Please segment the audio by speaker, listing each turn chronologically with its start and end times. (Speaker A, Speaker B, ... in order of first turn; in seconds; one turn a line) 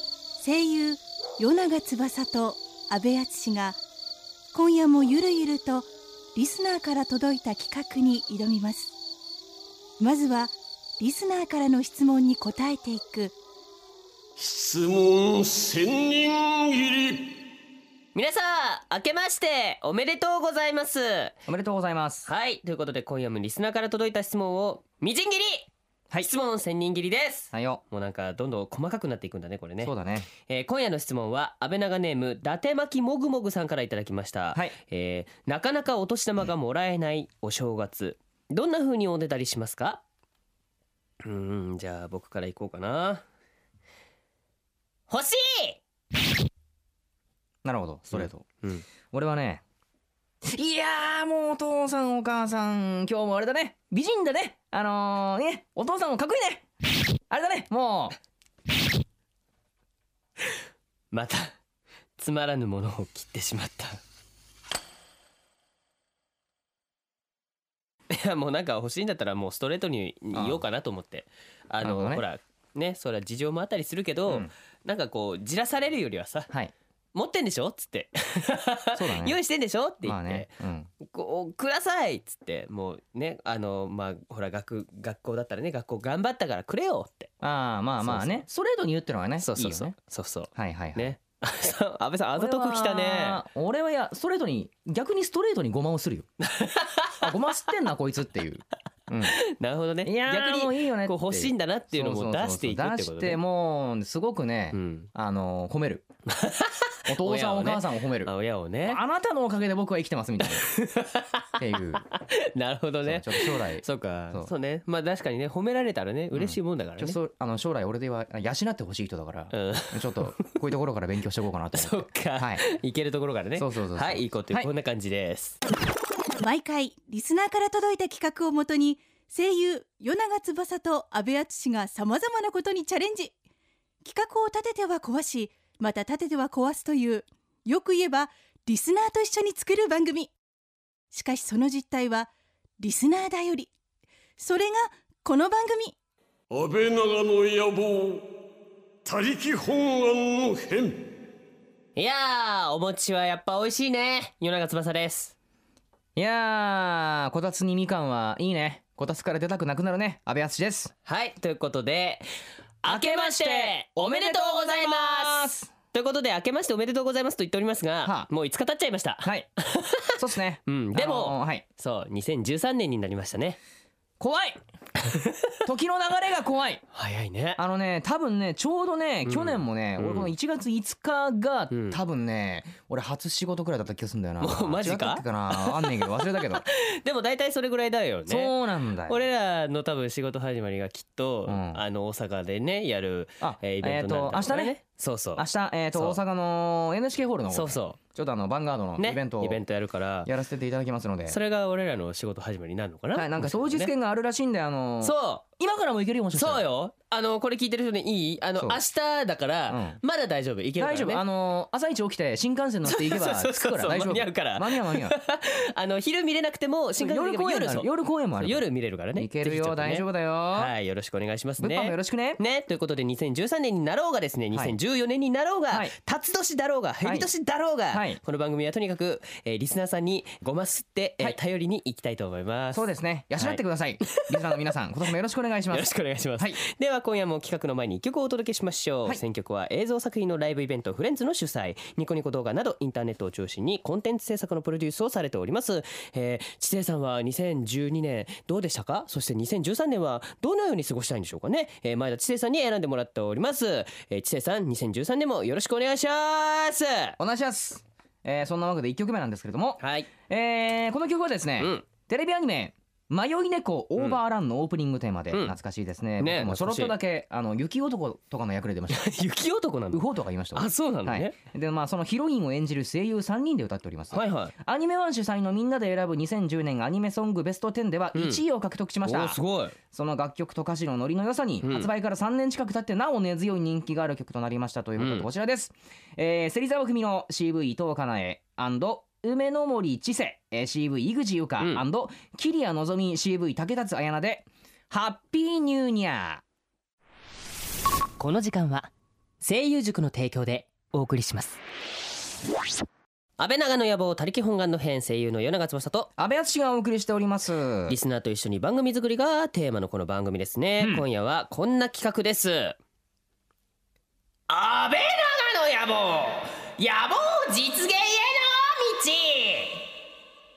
Speaker A: 0.4-3.8
Speaker A: 4.5-8.9
Speaker A: 10.0-13.3
Speaker B: 14.4-17.3
Speaker C: 18.1-21.4
Speaker D: 21.5-22.3
Speaker C: 22.3-40.0
Speaker D: 27.5-27.8
Speaker D: 29.8-30.3
Speaker C: 41.2-43.2
Speaker C: 45.1-45.8
Speaker D: 47.6-48.5
Speaker C: 48.1-48.8
Speaker D: 49.1-49.6
Speaker D: 50.4-58.2
Speaker C: 61.1-61.6
Speaker C: 62.2-64.0
Speaker C: 68.1-76.5
Speaker D: 70.3-70.6
Speaker D: 71.8-72.2
Speaker C: 77.1-87.3
Speaker D: 79.0-79.4
Speaker D: 80.0-80.9
Speaker D: 87.4-90.0
Speaker C: 88.0-88.4
Speaker C: 89.4-93.4
Speaker D: 90.5-91.1
Speaker D: 92.3-96.3
Speaker C: 96.4-97.3
Speaker D: 97.2-99.4
Speaker C: 99.2-103.4
Speaker D: 100.0-106.1
Speaker C: 104.7-105.1
Speaker C: 106.3-109.0
Speaker D: 107.1-108.3
Speaker D: 108.8-110.7
Speaker C: 110.5-117.2
Speaker D: 111.6-112.0
Speaker D: 113.0-114.5
Speaker D: 116.3-122.7
Speaker C: 119.5-120.5
Speaker C: 121.7-125.6
Speaker D: 123.6-124.7
Speaker A: 126.4-133.3
Speaker A: 134.0-140.3
Speaker A: 141.1-143.7
Speaker A: 144.4-145.9
Speaker B: 146.5-148.3
Speaker B: 149.0-151.1
Speaker C: 152.0-155.3
Speaker D: 156.2-160.9
Speaker C: 161.1-162.2
Speaker C: 162.8-173.6
Speaker D: 162.8-165.7
Speaker D: 168.0-168.3
Speaker D: 169.2-169.5
Speaker D: 170.2-171.6
Speaker D: 174.2-174.6
Speaker C: 175.1-175.5
Speaker D: 175.7-176.8
Speaker C: 176.9-177.6
Speaker D: 177.6-186.6
Speaker C: 179.3-180.3
Speaker C: 181.7-182.0
Speaker C: 184.4-188.6
Speaker D: 188.3-189.2
Speaker C: 189.1-196.2
Speaker D: 191.5-191.8
Speaker D: 193.4-194.8
Speaker D: 195.4-199.6
Speaker C: 197.5-198.0
Speaker C: 199.0-200.3
Speaker D: 200.2-201.4
Speaker C: 201.3-203.9
Speaker D: 203.2-206.6
Speaker C: 205.0-205.4
Speaker C: 206.3-211.2
Speaker D: 209.7-210.0
Speaker D: 210.8-215.2
Speaker C: 212.9-217.9
Speaker D: 217.0-220.7
Speaker C: 218.4-232.8
Speaker D: 221.6-222.4
Speaker D: 227.0-227.3
Speaker D: 227.9-228.2
Speaker D: 232.7-236.6
Speaker C: 233.4-234.7
Speaker C: 235.7-257.2
Speaker D: 257.2-269.1
Speaker C: 259.8-260.1
Speaker C: 261.6-261.9
Speaker C: 266.2-267.0
Speaker C: 268.9-271.4
Speaker D: 269.9-279.4
Speaker C: 274.1-274.5
Speaker C: 278.1-278.4
Speaker C: 279.0-279.8
Speaker D: 279.9-296.4
Speaker C: 281.6-281.9
Speaker C: 285.0-285.3
Speaker E: 298.2-298.9
Speaker E: 299.4-301.6
Speaker C: 299.7-300.9
Speaker C: 303.4-306.1
Speaker D: 306.2-308.0
Speaker C: 307.9-312.8
Speaker D: 310.8-311.1
Speaker C: 314.5-319.9